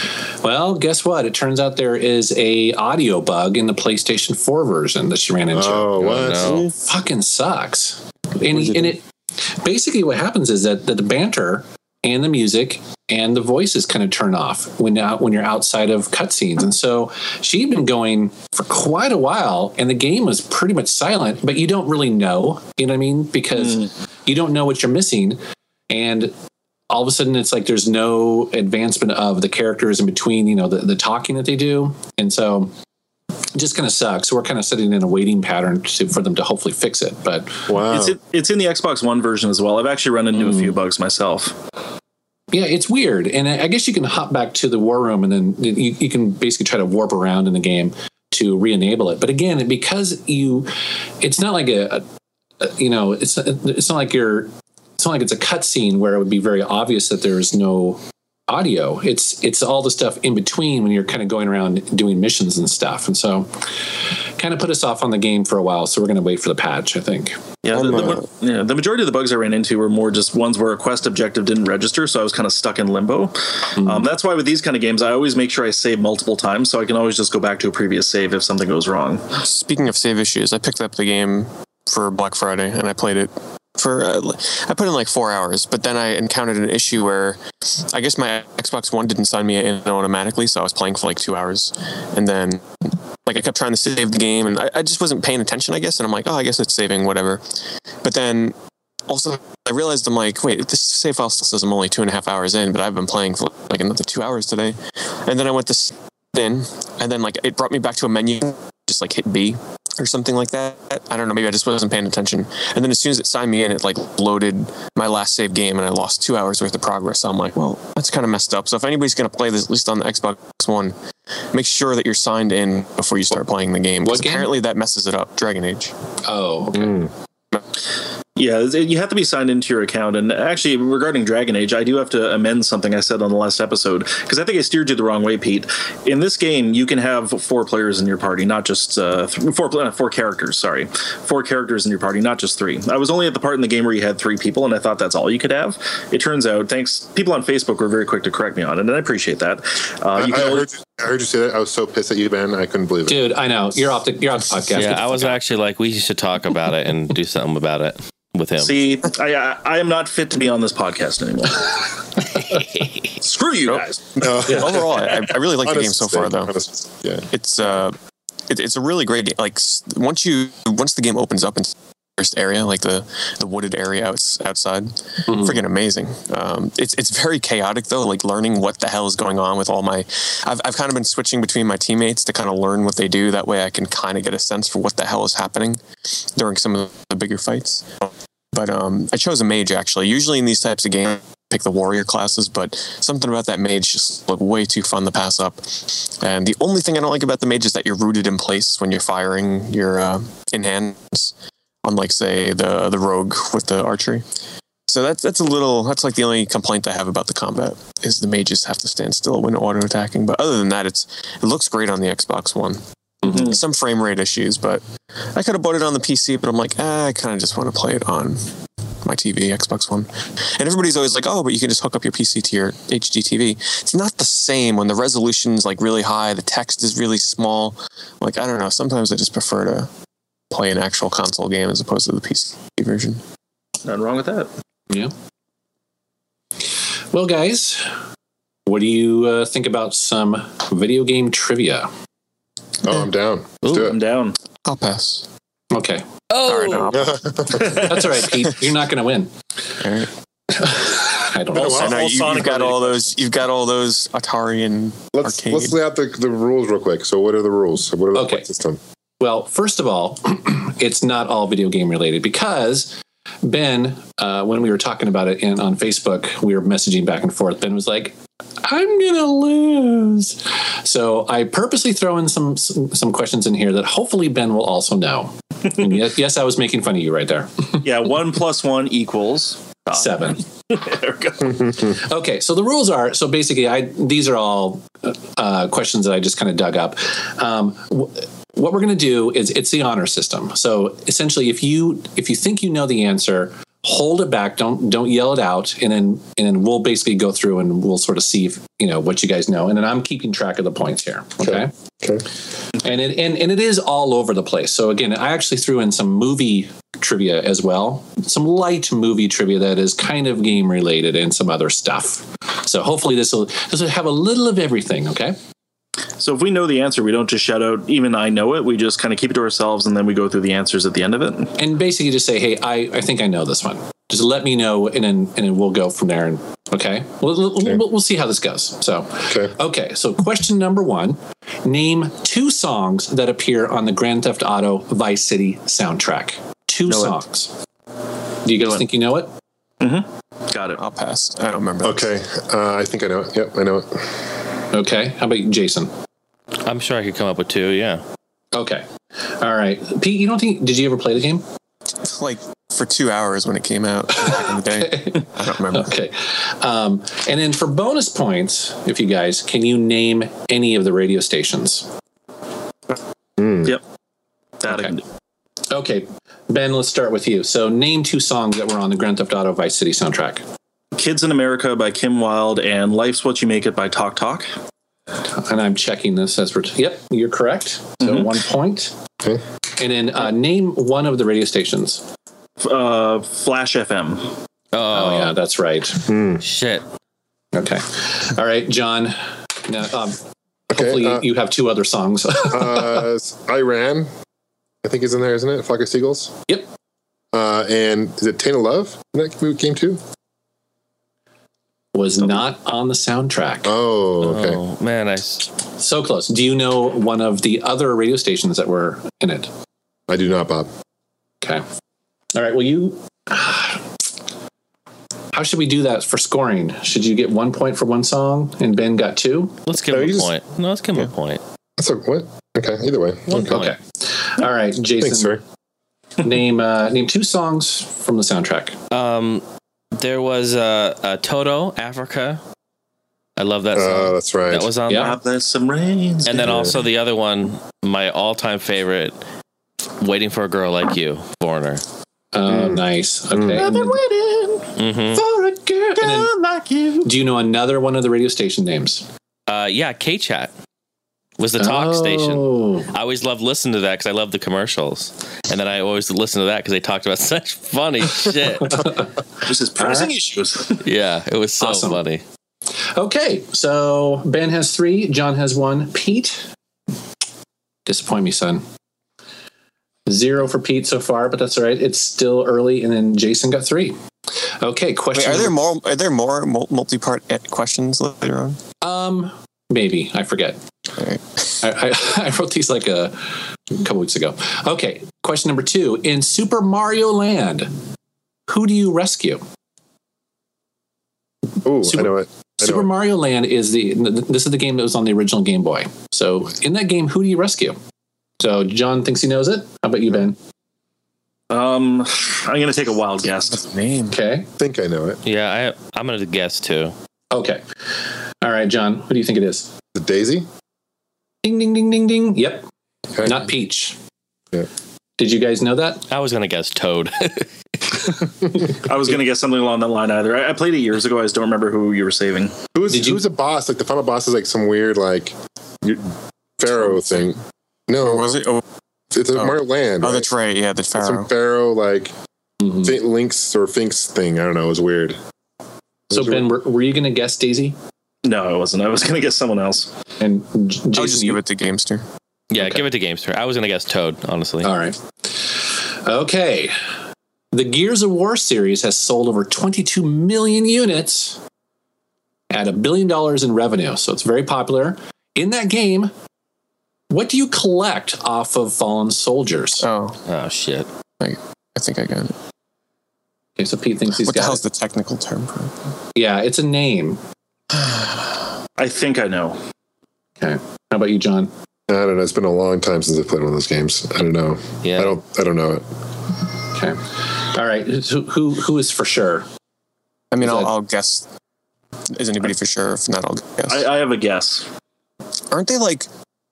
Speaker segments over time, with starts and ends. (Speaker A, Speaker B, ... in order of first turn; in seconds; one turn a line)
Speaker A: 0.4-6.1
Speaker B: 5.5-6.7
Speaker C: 6.0-6.7
Speaker A: 6.8-26.3
Speaker A: 26.9-32.7
Speaker A: 33.5-37.7
Speaker B: 37.7-38.2
Speaker D: 37.9-41.6
Speaker A: 40.4-40.8
Speaker A: 42.5-52.0
Speaker A: 52.6-63.5
Speaker A: 64.0-67.4
Speaker D: 67.6-79.2
Speaker E: 67.7-68.2
Speaker A: 73.8-74.1
Speaker E: 79.4-97.5
Speaker E: 98.0-98.6
Speaker E: 99.1-121.0
Speaker E: 121.5-125.9
Speaker A: 124.0-124.5
Speaker A: 126.3-127.0
Speaker B: 126.8-127.1
Speaker D: 128.4-150.7
Speaker B: 150.2-153.3
Speaker A: 153.1-155.4
Speaker C: 154.7-158.7
Speaker D: 158.6-161.9
Speaker D: 163.2-164.3
Speaker B: 164.2-167.3
Speaker E: 164.4-166.5
Speaker E: 167.3-168.0
Speaker E: 168.5-204.2
Speaker A: 175.3-175.6
Speaker E: 204.9-214.8
Speaker E: 215.3-218.5
Speaker E: 219.0-229.9
Speaker E: 230.5-233.2
Speaker D: 233.8-234.5
Speaker A: 237.1-237.9
Speaker A: 238.7-241.9
Speaker B: 242.8-244.0
Speaker D: 243.6-244.4
Speaker E: 244.7-245.3
Speaker A: 245.7-246.1
Speaker C: 246.3-246.9
Speaker E: 246.4-247.7
Speaker B: 246.9-247.9
Speaker D: 247.6-247.9
Speaker A: 247.7-249.3
Speaker E: 249.8-250.1
Speaker A: 250.5-252.0
Speaker B: 251.5-252.0
Speaker E: 251.6-255.8
Speaker D: 251.8-253.2
Speaker B: 255.1-258.8
Speaker A: 258.1-258.5
Speaker A: 259.2-277.8
Speaker D: 277.8-281.8
Speaker A: 279.9-280.4
Speaker A: 281.8-301.7
Speaker B: 301.4-302.3
Speaker A: 302.8-315.4
Speaker D: 316.2-321.6
Speaker A: 321.6-337.5
Speaker B: 329.3-329.6
Speaker A: 338.4-339.3
Speaker D: 339.8-340.8
Speaker E: 340.7-342.1
Speaker B: 341.8-344.1
Speaker A: 344.7-345.9
Speaker C: 346.6-348.0
Speaker A: 348.5-351.4
Speaker E: 352.0-355.9
Speaker A: 354.2-361.9
Speaker B: 363.4-363.8
Speaker D: 364.6-365.1
Speaker A: 365.7-370.4
Speaker D: 370.9-374.5
Speaker A: 375.2-379.0
Speaker D: 378.0-378.3
Speaker A: 379.8-382.1
Speaker D: 382.6-384.4
Speaker C: 384.7-385.4
Speaker A: 384.9-386.1
Speaker B: 386.1-386.4
Speaker C: 386.4-386.8
Speaker A: 387.5-393.0
Speaker B: 390.7-391.2
Speaker B: 392.5-394.1
Speaker B: 394.8-396.4
Speaker B: 397.3-400.0
Speaker A: 401.9-403.8
Speaker B: 403.6-404.6
Speaker C: 404.2-405.5
Speaker A: 405.8-409.5
Speaker B: 410.1-410.7
Speaker A: 412.3-413.8
Speaker A: 415.3-419.6
Speaker C: 419.7-421.4
Speaker B: 419.9-420.3
Speaker B: 421.8-423.6
Speaker C: 423.3-423.8
Speaker A: 423.4-425.4
Speaker B: 425.0-425.4
Speaker A: 426.2-428.8
Speaker C: 428.9-429.4
Speaker C: 429.9-432.4
Speaker C: 433.4-435.2
Speaker B: 433.8-434.7
Speaker A: 434.9-435.2
Speaker D: 434.9-436.7
Speaker C: 436.3-439.2
Speaker B: 436.4-436.8
Speaker C: 440.0-441.8
Speaker A: 442.3-444.0
Speaker B: 442.5-443.6
Speaker D: 443.6-444.7
Speaker C: 444.8-445.2
Speaker D: 445.3-447.1
Speaker A: 445.9-446.3
Speaker A: 447.0-449.1
Speaker C: 449.5-450.5
Speaker C: 451.4-458.9
Speaker A: 451.6-452.9
Speaker A: 458.8-459.1
Speaker D: 459.4-460.8
Speaker A: 459.8-460.1
Speaker C: 460.8-462.2
Speaker A: 461.6-462.0
Speaker A: 462.9-466.5
Speaker A: 467.9-468.6
Speaker A: 470.1-474.0
Speaker A: 474.6-475.6
Speaker E: 475.1-478.6
Speaker A: 478.8-480.6
Speaker E: 481.0-481.6
Speaker A: 481.6-487.7
Speaker A: 488.5-489.4
Speaker B: 491.6-492.9
Speaker A: 491.9-497.8
Speaker A: 498.4-500.4
Speaker D: 501.5-503.6
Speaker E: 503.5-504.2
Speaker A: 504.1-504.5
Speaker B: 504.6-505.2
Speaker C: 505.2-506.9
Speaker A: 507.3-507.6
Speaker A: 508.4-509.7
Speaker B: 509.9-510.5
Speaker A: 511.4-512.7
Speaker B: 513.1-513.5
Speaker A: 513.2-514.0
Speaker A: 515.2-516.0
Speaker C: 516.1-518.0
Speaker D: 518.8-522.6
Speaker B: 522.7-526.1
Speaker A: 522.9-523.2
Speaker B: 526.6-528.3
Speaker E: 526.9-527.2
Speaker E: 528.0-528.6
Speaker B: 529.1-530.3
Speaker E: 529.3-531.3
Speaker B: 531.0-532.1
Speaker A: 532.6-532.9
Speaker B: 532.8-535.2
Speaker B: 536.1-536.5
Speaker A: 536.1-537.8
Speaker D: 538.2-539.9
Speaker A: 540.2-541.4
Speaker E: 540.9-542.0
Speaker C: 542.5-544.7
Speaker A: 544.6-546.8
Speaker A: 547.5-551.4
Speaker A: 552.5-556.1
Speaker A: 557.1-559.9
Speaker E: 559.8-560.2
Speaker C: 560.3-560.9
Speaker E: 561.2-562.4
Speaker A: 563.6-564.6
Speaker E: 564.2-565.9
Speaker A: 566.1-567.2
Speaker E: 567.7-568.5
Speaker D: 568.8-569.6
Speaker A: 570.4-571.5
Speaker B: 571.9-575.8
Speaker C: 574.8-575.2
Speaker A: 576.7-579.5
Speaker E: 580.3-581.3
Speaker A: 580.4-580.7
Speaker E: 582.1-583.9
Speaker D: 583.7-584.7
Speaker E: 585.5-586.1